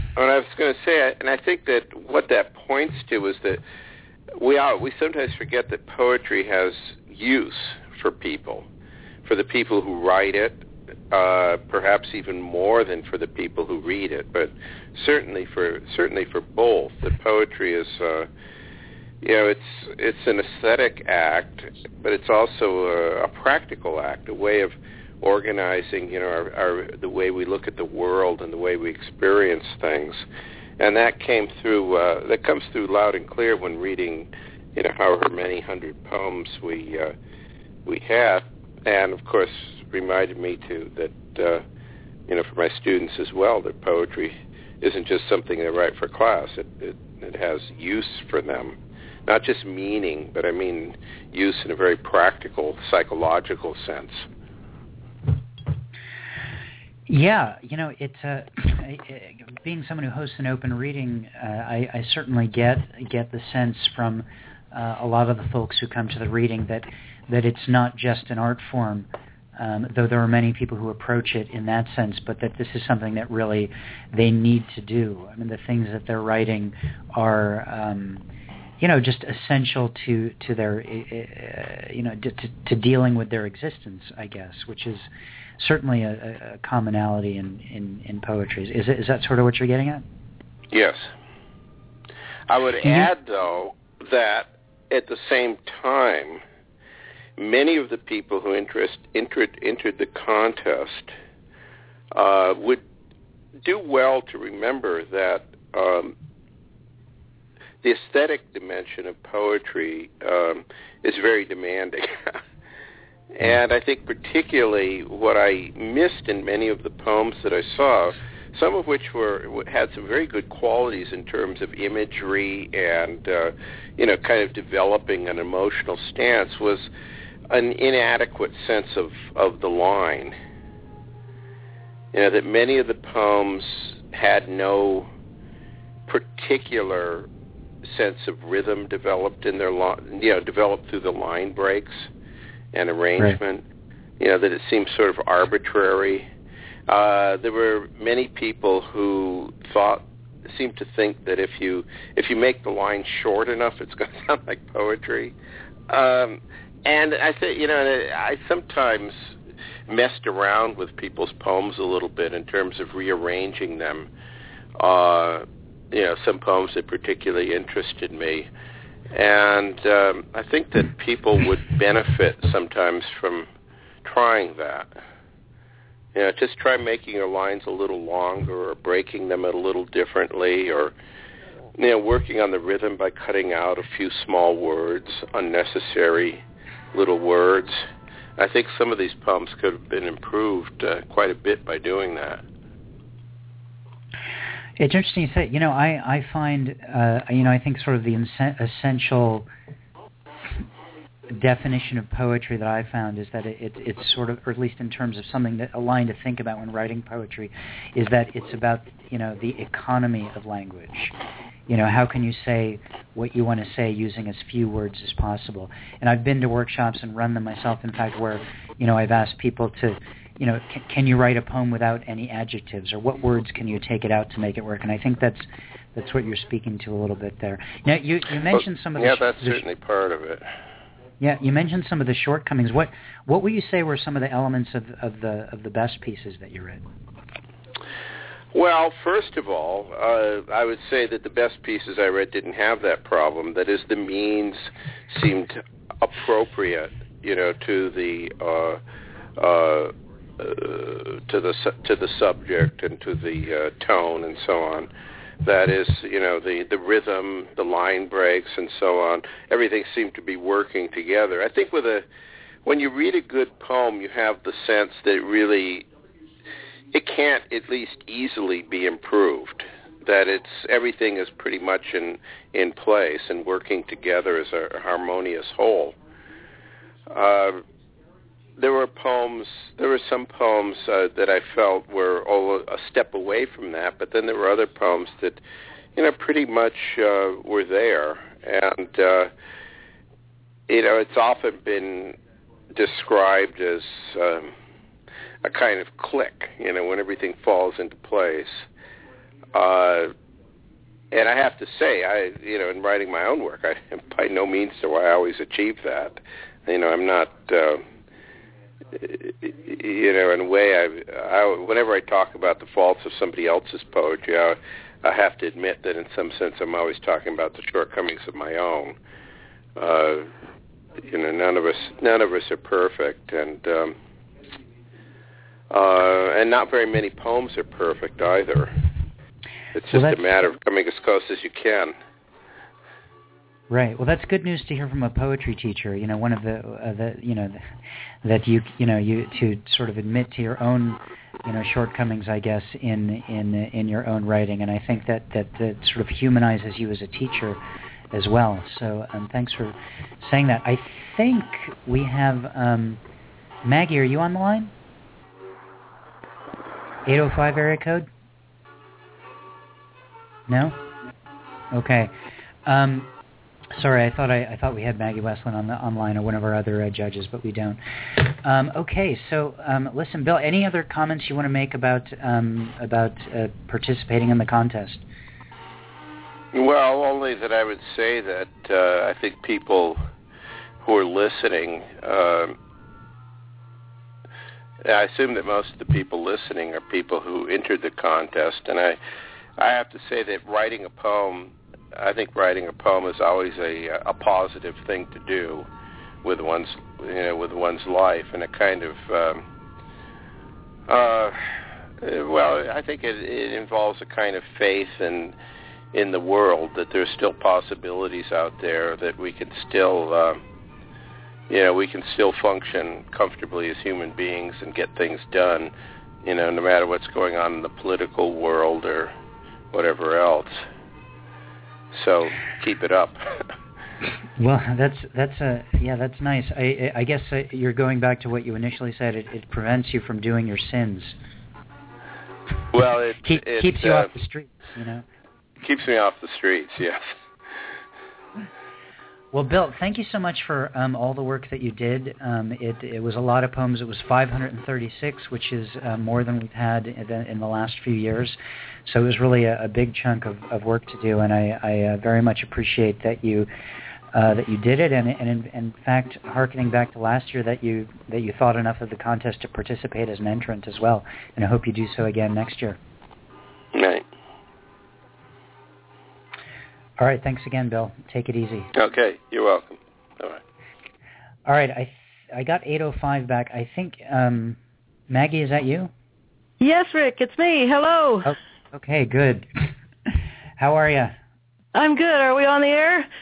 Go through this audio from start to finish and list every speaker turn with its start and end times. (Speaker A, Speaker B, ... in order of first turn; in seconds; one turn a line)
Speaker A: 0.2-3.6
Speaker A: 4.4-8.7
Speaker A: 9.2-18.3
Speaker A: 19.2-30.2
Speaker A: 30.8-37.1
Speaker A: 37.9-41.6
Speaker A: 42.3-48.8
Speaker A: 49.3-54.3
Speaker B: 57.1-78.2
Speaker B: 78.8-90.0
Speaker A: 90.7-91.1
Speaker A: 92.5-96.4
Speaker B: 92.8-93.1
Speaker A: 97.4-101.1
Speaker A: 102.1-102.8
Speaker A: 103.6-106.1
Speaker A: 107.8-112.4
Speaker A: 113.3-126.9
Speaker A: 127.5-130.3
Speaker A: 132.1-135.1
Speaker A: 136.1-137.3
Speaker A: 137.8-142.1
Speaker A: 142.7-143.6
Speaker A: 144.2-146.3
Speaker A: 146.9-155.3
Speaker A: 155.9-159.2
Speaker A: 159.9-164.1
Speaker A: 164.8-168.5
Speaker A: 169.1-173.5
Speaker A: 174.1-174.9
Speaker A: 176.2-180.9
Speaker A: 181.8-187.8
Speaker A: 188.4-192.4
Speaker B: 194.8-199.5
Speaker B: 201.3-211.2
Speaker B: 211.7-229.6
Speaker A: 229.0-230.5
Speaker B: 231.2-236.8
Speaker A: 238.5-248.8
Speaker A: 249.4-254.9
Speaker A: 255.4-262.1
Speaker A: 262.6-265.9
Speaker A: 266.9-275.9
Speaker A: 277.1-277.6
Speaker A: 278.6-285.4
Speaker A: 286.0-289.3
Speaker A: 290.7-292.2
Speaker A: 292.7-294.5
Speaker A: 295.4-298.6
Speaker A: 299.5-300.1
Speaker A: 301.1-307.8
Speaker A: 309.0-319.0
Speaker A: 319.8-320.3
Speaker A: 321.1-323.9
Speaker A: 325.7-328.7
Speaker A: 329.7-331.9
Speaker B: 329.9-330.2
Speaker B: 333.7-337.6
Speaker B: 338.2-347.6
Speaker B: 348.1-353.0
Speaker B: 353.6-354.7
Speaker B: 357.1-358.1
Speaker B: 360.5-360.8
Speaker B: 361.7-362.1
Speaker B: 362.6-363.1
Speaker B: 363.7-375.0
Speaker A: 376.5-380.0
Speaker A: 380.8-382.6
Speaker A: 384.8-389.0
Speaker A: 389.6-395.7
Speaker A: 396.2-399.4
Speaker A: 400.9-401.4
Speaker A: 402.0-405.3
Speaker A: 405.9-410.4
Speaker A: 411.5-415.7
Speaker A: 416.2-419.1
Speaker A: 419.7-420.6
Speaker A: 421.9-423.4
Speaker B: 424.4-431.2
Speaker A: 432.7-434.1
Speaker B: 433.2-435.1
Speaker A: 435.6-437.1
Speaker B: 439.3-453.5
Speaker B: 454.1-462.8
Speaker A: 463.7-464.1
Speaker B: 467.0-468.7
Speaker A: 468.8-470.4
Speaker B: 471.5-474.6
Speaker B: 475.1-475.9
Speaker C: 476.6-478.4
Speaker B: 478.2-481.2
Speaker C: 481.7-483.1